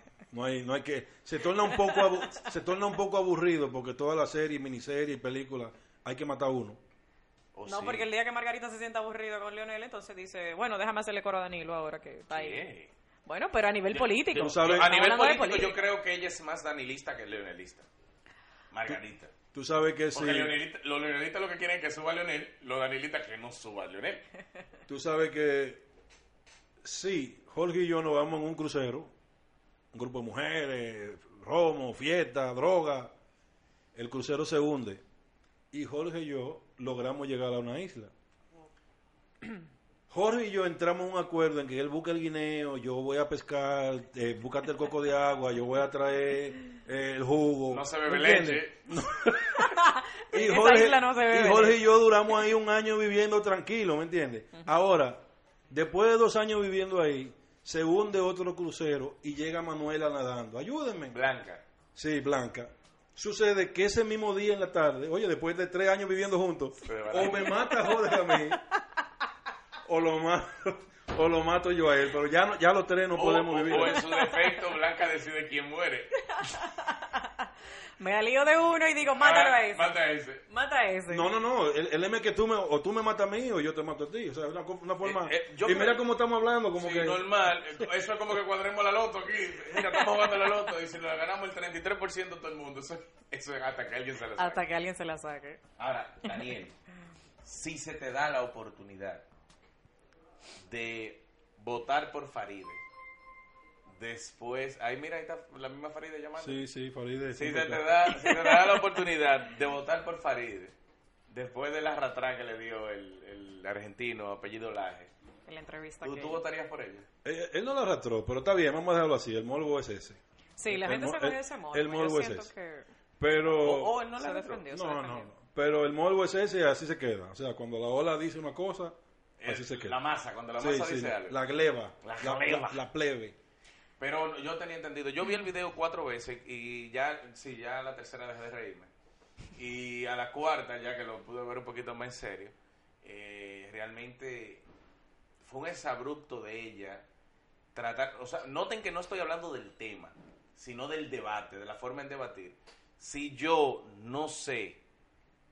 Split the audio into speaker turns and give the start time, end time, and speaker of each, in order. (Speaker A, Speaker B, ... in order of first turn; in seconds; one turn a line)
Speaker A: 0.3-6.8
Speaker B: 7.5-8.1
Speaker C: 7.7-12.6
Speaker B: 12.3-12.9
Speaker C: 13.2-15.8
Speaker B: 13.9-17.9
Speaker A: 14.3-14.9
Speaker B: 18.7-19.3
Speaker A: 19.5-20.6
Speaker B: 20.1-24.2
Speaker A: 24.9-25.8
Speaker A: 26.8-29.1
Speaker A: 29.9-33.1
Speaker A: 33.9-35.0
Speaker A: 35.7-38.1
Speaker A: 40.1-49.7
Speaker B: 47.7-48.8
Speaker C: 49.5-51.9
Speaker A: 50.3-61.2
Speaker B: 61.1-61.6
Speaker A: 61.9-68.6
Speaker B: 66.8-67.7
Speaker C: 67.2-68.6
Speaker A: 69.8-74.0
Speaker B: 73.1-76.4
Speaker C: 73.8-74.6
Speaker C: 76.4-81.3
Speaker B: 79.2-80.4
Speaker A: 81.1-87.8
Speaker B: 85.0-86.0
Speaker B: 86.7-94.6
Speaker C: 89.8-90.4
Speaker C: 94.3-95.6
Speaker B: 95.8-96.7
Speaker B: 97.4-99.2
Speaker B: 100.6-102.8
Speaker B: 103.9-106.6
Speaker A: 106.4-108.3
Speaker B: 107.3-110.7
Speaker B: 111.3-115.1
Speaker C: 115.5-116.4
Speaker B: 116.0-117.0
Speaker A: 117.2-122.5
Speaker C: 120.6-122.9
Speaker A: 123.2-124.0
Speaker B: 123.4-124.6
Speaker C: 124.2-125.3
Speaker A: 124.7-130.0
Speaker B: 129.4-131.4
Speaker A: 130.6-133.3
Speaker B: 132.0-132.8
Speaker B: 134.0-138.9
Speaker B: 139.5-144.6
Speaker B: 145.4-147.0
Speaker B: 147.7-154.8